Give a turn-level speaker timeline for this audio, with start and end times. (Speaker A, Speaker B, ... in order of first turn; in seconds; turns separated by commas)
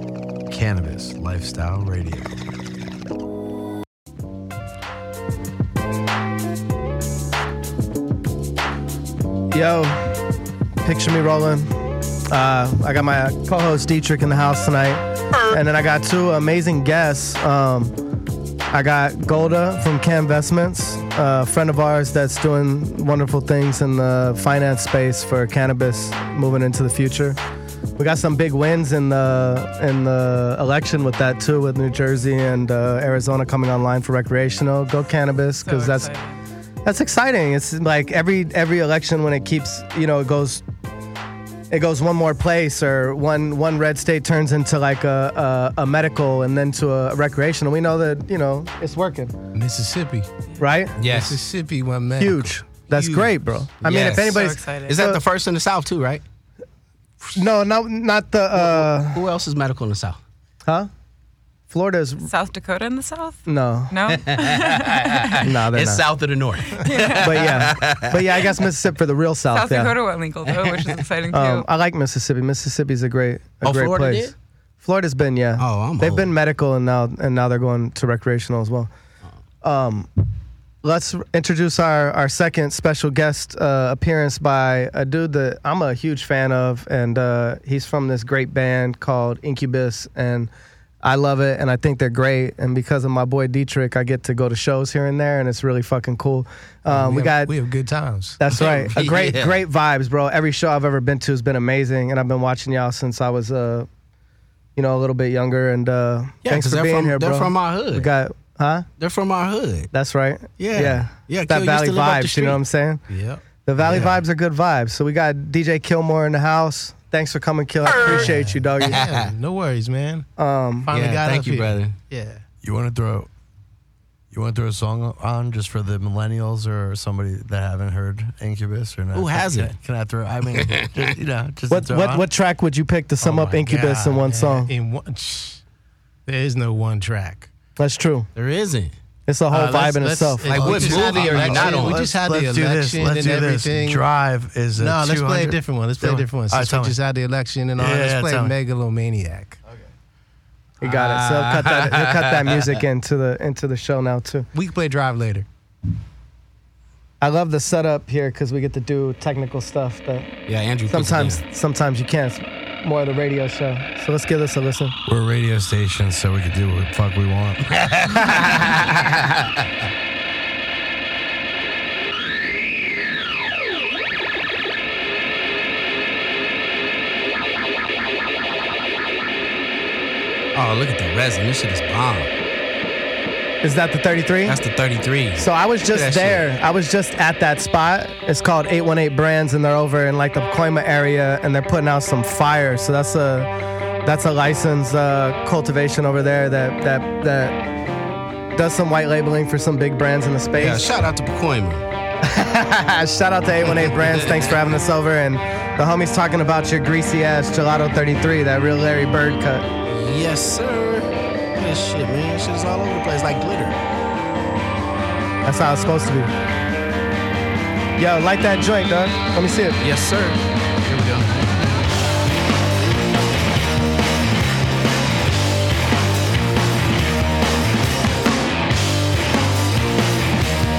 Speaker A: 0.5-2.4, Speaker B: 9.5-10.1, Speaker B: 10.8-11.7, Speaker B: 12.3-18.0, Speaker B: 18.7-27.4, Speaker B: 28.0-36.1, Speaker C: 35.6-36.4, Speaker B: 36.8-40.6, Speaker B: 41.7-49.4, Speaker D: 49.5-50.3, Speaker B: 50.6-51.0, Speaker E: 51.0-51.4, Speaker D: 51.0-53.3, Speaker B: 52.2-55.2, Speaker E: 53.8-56.2, Speaker C: 54.2-55.1, Speaker B: 57.3-59.2, Speaker E: 58.6-60.2, Speaker B: 60.6-60.9, Speaker B: 61.7-62.3, Speaker C: 62.2-65.5, Speaker B: 63.5-64.2, Speaker E: 64.2-68.5, Speaker B: 65.4-66.0, Speaker C: 66.7-67.5, Speaker B: 67.2-69.9, Speaker C: 69.5-71.7, Speaker E: 70.5-71.0, Speaker B: 71.3-78.9, Speaker E: 73.6-74.3, Speaker E: 75.6-76.3, Speaker B: 79.6-80.1, Speaker B: 80.8-90.5, Speaker B: 91.0-97.5, Speaker D: 96.9-98.4, Speaker B: 98.4-103.9, Speaker E: 98.5-99.6, Speaker B: 104.8-108.9, Speaker E: 106.4-108.1, Speaker E: 109.0-109.9, Speaker B: 109.9-113.1, Speaker E: 110.6-112.6, Speaker D: 113.1-114.2, Speaker B: 113.7-119.0, Speaker E: 117.9-118.3, Speaker D: 118.0-120.3, Speaker E: 118.8-119.3, Speaker B: 120.4-120.9, Speaker D: 120.8-122.4, Speaker E: 120.9-122.0, Speaker A: 122.6-123.3, Speaker A: 124.3-132.3, Speaker E: 129.1-129.8, Speaker E: 130.6-131.0, Speaker B: 131.7-134.7, Speaker D: 133.2-135.6, Speaker D: 136.3-137.5, Speaker B: 137.8-138.3, Speaker E: 138.4-138.9, Speaker B: 139.3-140.8, Speaker D: 139.5-144.1, Speaker E: 140.5-142.1, Speaker A: 140.6-147.0, Speaker D: 144.8-149.6, Speaker A: 147.8-148.6, Speaker B: 150.8-154.5, Speaker E: 150.8-152.7, Speaker D: 154.5-155.5, Speaker B: 157.2-160.3, Speaker E: 160.5-161.4, Speaker B: 160.9-164.9, Speaker A: 165.1-167.7, Speaker E: 167.7-169.6, Speaker E: 180.5-182.3, Speaker B: 183.6-184.6, Speaker E: 184.5-186.4, Speaker B: 185.4-193.5, Speaker B: 194.0-197.6, Speaker B: 198.5-200.9, Speaker E: 200.6-201.8, Speaker B: 202.2-209.7, Speaker E: 209.9-213.8, Speaker B: 215.4-216.3, Speaker B: 218.0-219.8, Speaker E: 219.8-221.8